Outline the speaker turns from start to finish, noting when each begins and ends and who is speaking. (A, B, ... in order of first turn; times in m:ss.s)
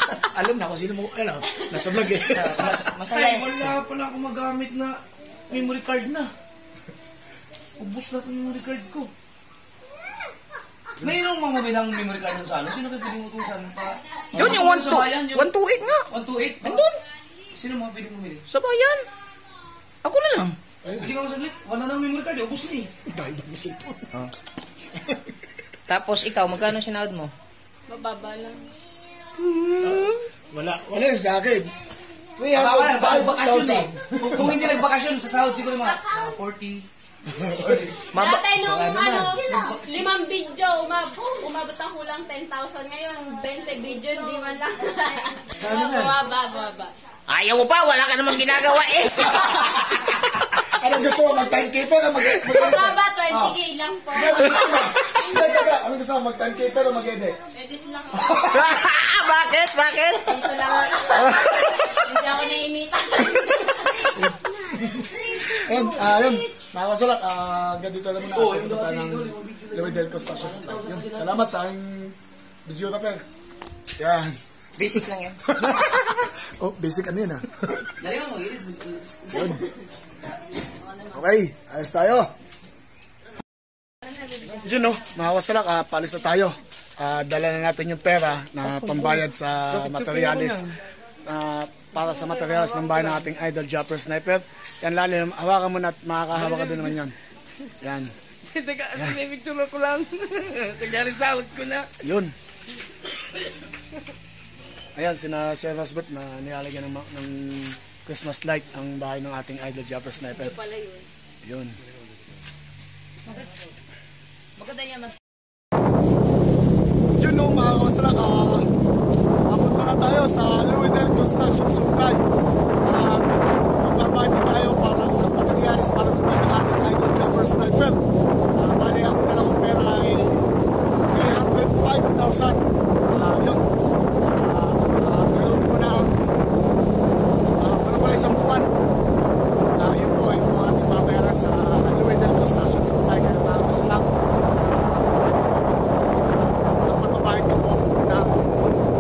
0:00.2-0:02.9 A
0:01.5-0:01.8 B
0:02.3-0:03.8 C
0:02.4-0:05.0 D
0:05.5-0:06.3 D
0:07.8-0:09.1 D
0:11.0-0:15.6 D
0:14.4-0:16.1 C
0:16.1-0:16.8 D
0:16.6-0:17.0 C
0:17.5-0:18.4 D
0:18.5-0:19.1 C
0:20.0-0:20.6 C
0:20.8-0:21.1 A
0:21.0-0:22.9 D
0:23.1-0:24.2 A
0:25.9-0:27.3 C
0:27.9-0:28.6 B
0:29.4-0:30.2 C
0:29.8-0:31.7 A
0:32.4-0:34.7 A
0:32.5-0:36.9 D
0:37.5-0:37.8 A
0:37.5-0:38.1 D
0:38.1-0:46.9 B
0:38.1-0:39.1 C
0:38.6-0:39.4 A
0:39.4-0:40.1 D
0:45.6-0:46.2 A
0:47.3-0:50.2 C
0:50.8-0:53.6 A
0:50.8-0:51.3 B
0:52.4-0:54.8 B
0:54.1-0:57.4 A
0:57.5-0:58.8 B
0:58.2-1:02.1 C
1:00.2-1:04.2 B
1:04.0-1:04.4 A
1:05.4-1:13.2 A
1:08.2-1:11.4 D
1:14.0-1:14.4 A
1:14.8-1:16.1 C
1:15.5-1:17.5 A
1:18.0-1:19.6 D
1:19.3-1:19.6 A
1:21.1-1:22.3 A
1:24.6-1:30.7 A
1:31.2-1:37.2 A
1:37.8-1:38.1 A
1:38.9-1:39.2 A
1:41.1-1:41.5 C
1:42.0-1:42.4 A
1:45.0-1:50.6 A
1:50.4-1:51.1 B
1:51.4-1:51.8 A
1:54.6-1:55.1 B
1:57.2-1:58.7 A
1:59.5-2:02.2 A
2:02.8-2:08.0 A
2:08.6-2:10.5 A
2:11.1-2:13.7 A
2:14.2-2:16.5 A
2:17.6-2:18.7 A
2:19.8-2:28.8 A